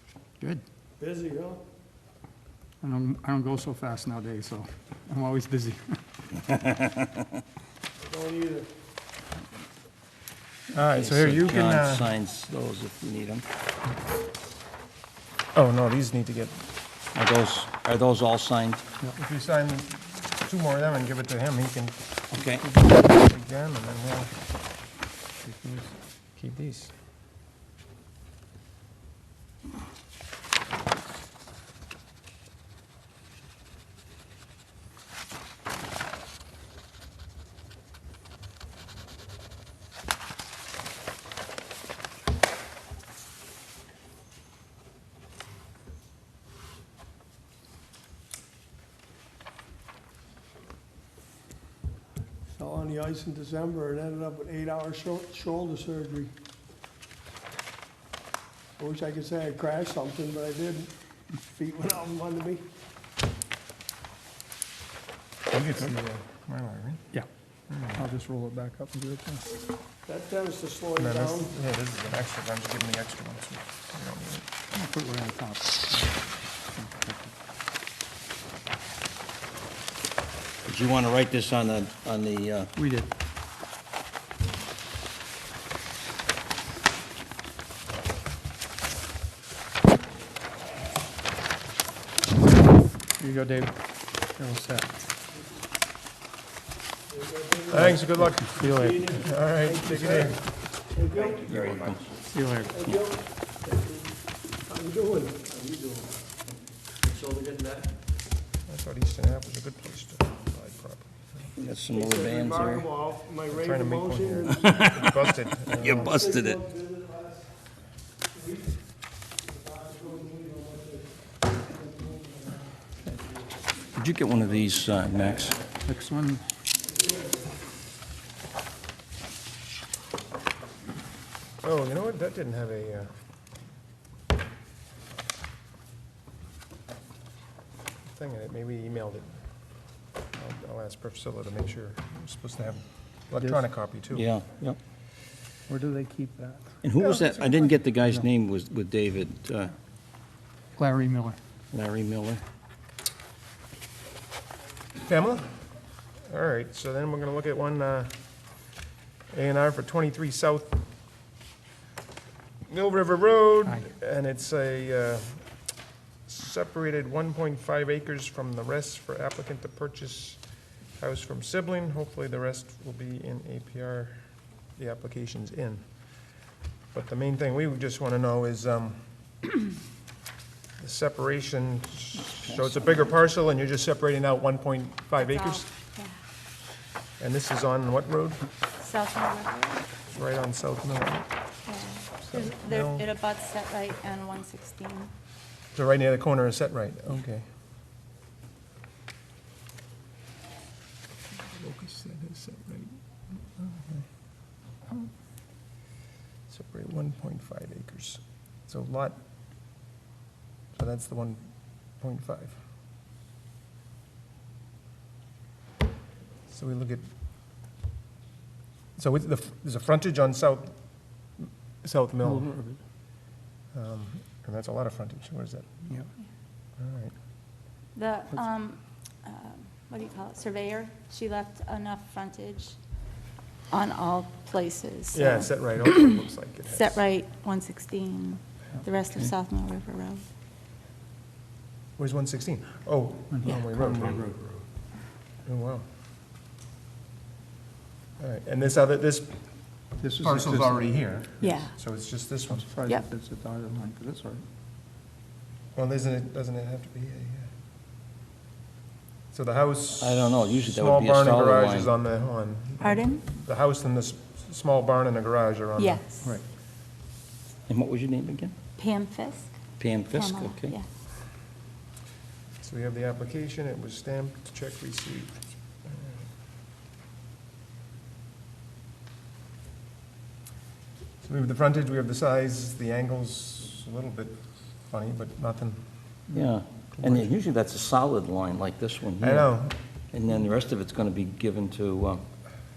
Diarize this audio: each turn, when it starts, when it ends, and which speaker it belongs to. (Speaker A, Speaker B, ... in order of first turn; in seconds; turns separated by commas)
Speaker A: 1.0-1.6, Speaker B: 2.8-6.0, Speaker A: 8.0-8.7, Speaker C: 10.7-12.1, Speaker D: 10.9-13.4, Speaker C: 15.5-16.6, Speaker D: 17.1-18.8, Speaker C: 19.1-22.0, Speaker D: 22.3-22.7, Speaker C: 22.8-24.3, Speaker B: 25.4-25.9, Speaker C: 26.4-26.9, Speaker A: 52.5-56.3, Speaker A: 58.8-60.9, Speaker A: 61.4-62.6, Speaker C: 65.5-67.1, Speaker C: 67.7-68.0, Speaker B: 67.9-69.4, Speaker A: 70.0-71.5, Speaker C: 71.0-74.5, Speaker B: 74.7-76.2, Speaker B: 76.7-77.3, Speaker D: 80.6-82.7, Speaker B: 82.8-83.1, Speaker B: 93.2-94.9, Speaker A: 97.1-101.6, Speaker C: 97.7-100.5, Speaker B: 97.7-99.2, Speaker D: 101.2-102.2, Speaker B: 102.3-102.8, Speaker A: 102.7-106.1, Speaker A: 107.0-107.9, Speaker C: 108.7-111.5, Speaker D: 111.6-112.9, Speaker A: 111.6-114.9, Speaker C: 113.5-116.2, Speaker D: 115.8-116.6, Speaker A: 115.8-117.5, Speaker A: 118.3-118.7, Speaker A: 119.4-122.6, Speaker D: 123.9-125.6, Speaker B: 125.8-126.4, Speaker C: 131.6-133.1, Speaker C: 138.1-139.3, Speaker C: 140.3-144.3, Speaker D: 144.1-144.8, Speaker B: 145.7-146.7, Speaker D: 146.8-149.7, Speaker C: 147.0-147.6, Speaker B: 150.8-151.4, Speaker D: 151.7-152.4, Speaker C: 155.0-155.6, Speaker C: 156.3-158.1, Speaker C: 159.3-160.8, Speaker C: 162.7-165.4, Speaker C: 166.2-170.4, Speaker C: 170.9-174.2, Speaker C: 174.8-175.8, Speaker C: 176.9-179.0, Speaker C: 180.8-185.7, Speaker E: 185.2-186.2, Speaker C: 187.2-188.4, Speaker E: 188.8-189.8, Speaker C: 190.1-191.3, Speaker E: 191.7-195.1, Speaker C: 192.2-193.1, Speaker C: 195.7-197.4, Speaker C: 201.5-204.1, Speaker C: 206.5-209.2, Speaker C: 210.7-212.6, Speaker C: 216.5-217.0, Speaker C: 219.0-222.5, Speaker B: 222.2-222.8, Speaker C: 223.7-225.7, Speaker C: 226.8-227.1, Speaker E: 227.9-232.8, Speaker E: 233.7-236.2, Speaker C: 235.1-237.0, Speaker E: 236.7-240.2, Speaker C: 242.0-244.3, Speaker B: 243.3-244.6, Speaker C: 245.4-245.8, Speaker C: 248.2-249.3, Speaker B: 250.0-250.9, Speaker C: 250.2-252.7, Speaker E: 251.4-251.7, Speaker B: 252.5-254.4, Speaker C: 255.7-257.5, Speaker C: 259.3-266.0, Speaker D: 260.0-261.9, Speaker E: 262.8-263.2, Speaker E: 265.8-266.3, Speaker D: 267.7-268.5, Speaker E: 268.8-269.5, Speaker D: 269.8-270.7, Speaker E: 270.1-270.9, Speaker C: 272.6-276.2, Speaker C: 281.2-285.8, Speaker D: 286.3-289.5, Speaker C: 286.9-287.3, Speaker C: 289.2-289.8, Speaker D: 290.1-292.2